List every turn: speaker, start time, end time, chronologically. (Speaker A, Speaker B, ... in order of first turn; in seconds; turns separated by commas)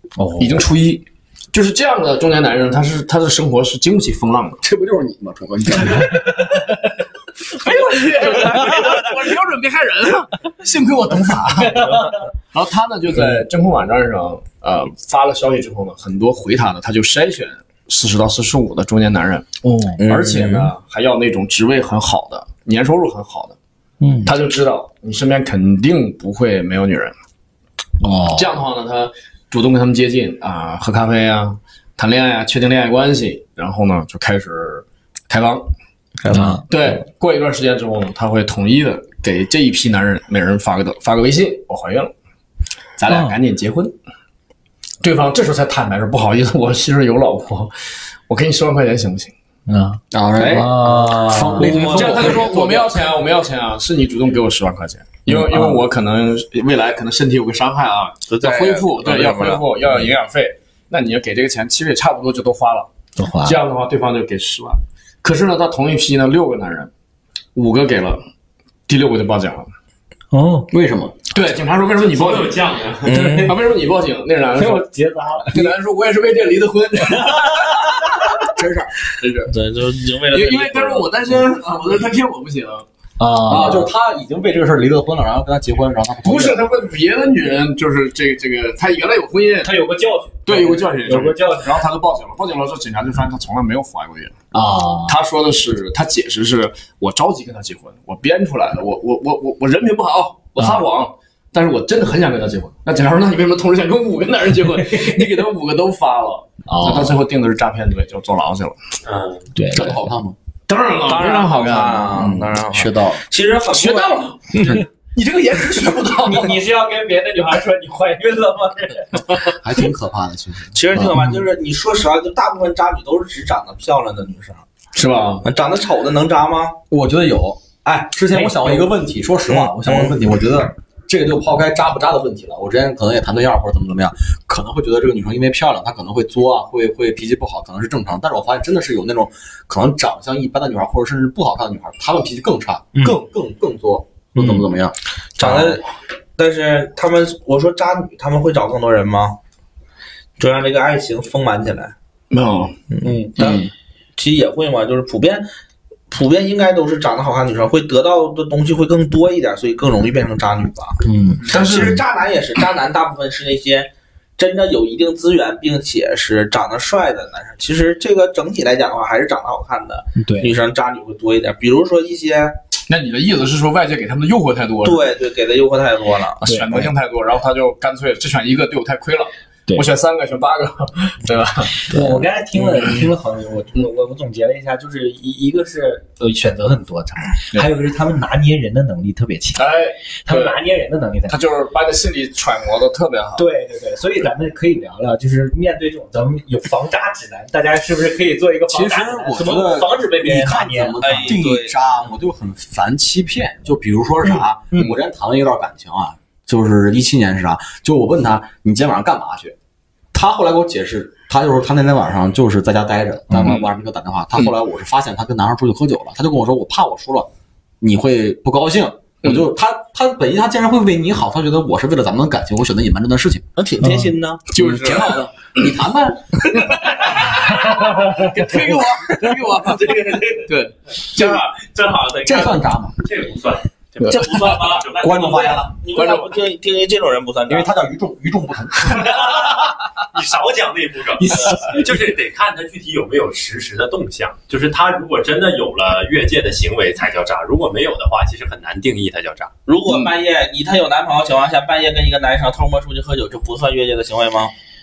Speaker A: 0.2-0.7, Speaker B: 0.4-4.6, Speaker C: 4.6-6.5, Speaker B: 7.5-19.5, Speaker A: 11.8-12.0, Speaker A: 19.6-20.0, Speaker D: 20.0-20.7, Speaker B: 20.1-23.6, Speaker A: 24.0-24.3, Speaker B: 24.2-27.1, Speaker A: 28.0-28.6, Speaker B: 28.3-35.7, Speaker A: 36.3-36.6, Speaker B: 36.3-42.1, Speaker B: 43.0-44.0, Speaker A: 43.1-43.4, Speaker B: 45.0-47.7, Speaker B: 48.3-49.3, Speaker A: 49.7-51.8, Speaker C: 50.1-52.9, Speaker B: 50.4-50.8, Speaker D: 51.5-52.8, Speaker B: 51.6-62.9, Speaker A: 55.3-55.8, Speaker D: 58.3-59.8, Speaker A: 63.2-63.6, Speaker B: 63.4-66.9, Speaker B: 67.5-68.2, Speaker B: 68.9-69.7, Speaker A: 70.3-70.7, Speaker C: 70.7-71.3, Speaker B: 71.3-74.9, Speaker E: 72.1-73.1, Speaker D: 73.0-73.5, Speaker A: 73.2-73.5, Speaker A: 74.5-75.7, Speaker B: 75.5-78.0, Speaker C: 78.5-79.0, Speaker B: 79.2-79.5, Speaker D: 79.5-81.1, Speaker B: 80.3-82.9, Speaker A: 83.2-83.9, Speaker C: 83.5-86.7, Speaker B: 86.2-89.7, Speaker A: 89.6-91.9, Speaker B: 90.5-94.3, Speaker A: 94.5-95.2, Speaker B: 95.1-108.8, Speaker A: 100.6-100.8, Speaker A: 106.7-107.2, Speaker E: 109.0-109.5, Speaker A: 109.5-110.0, Speaker C: 109.7-110.4, Speaker B: 110.7-112.3, Speaker D: 111.1-114.8, Speaker C: 112.7-113.2, Speaker A: 112.8-113.2, Speaker B: 113.7-116.6, Speaker A: 116.2-119.3, Speaker C: 119.4-120.9, Speaker D: 120.7-124.6, Speaker B: 124.9-125.5, Speaker D: 125.4-126.8, Speaker C: 126.9-145.8, Speaker A: 128.3-128.9, Speaker D: 129.5-130.2, Speaker D: 145.4-145.8, Speaker D: 146.4-149.4, Speaker D: 150.4-151.9, Speaker B: 152.3-152.8, Speaker D: 152.9-155.5, Speaker A: 153.0-153.3, Speaker D: 156.1-172.6, Speaker A: 161.0-161.4, Speaker B: 161.5-162.0, Speaker A: 170.2-170.5, Speaker B: 172.9-175.0, Speaker D: 174.8-176.9, Speaker A: 176.4-176.8, Speaker B: 176.5-182.0, Speaker A: 181.9-191.4, Speaker B: 182.8-183.0, Speaker B: 189.6-190.6, Speaker B: 191.3-193.5, Speaker A: 193.4-201.0, Speaker C: 198.7-209.6, Speaker D: 201.0-201.8, Speaker C: 210.1-217.3, Speaker B: 213.3-213.7, Speaker C: 217.8-223.5, Speaker D: 223.6-224.4, Speaker B: 224.5-225.3, Speaker C: 224.6-226.5, Speaker B: 226.5-231.4, Speaker D: 229.6-232.7, Speaker C: 232.2-232.9, Speaker E: 233.0-235.6, Speaker B: 234.0-234.8, Speaker D: 234.1-237.7, Speaker C: 235.0-235.8, Speaker B: 235.9-236.3, Speaker C: 237.5-239.3, Speaker E: 239.0-249.5, Speaker B: 241.3-241.7, Speaker D: 249.7-254.5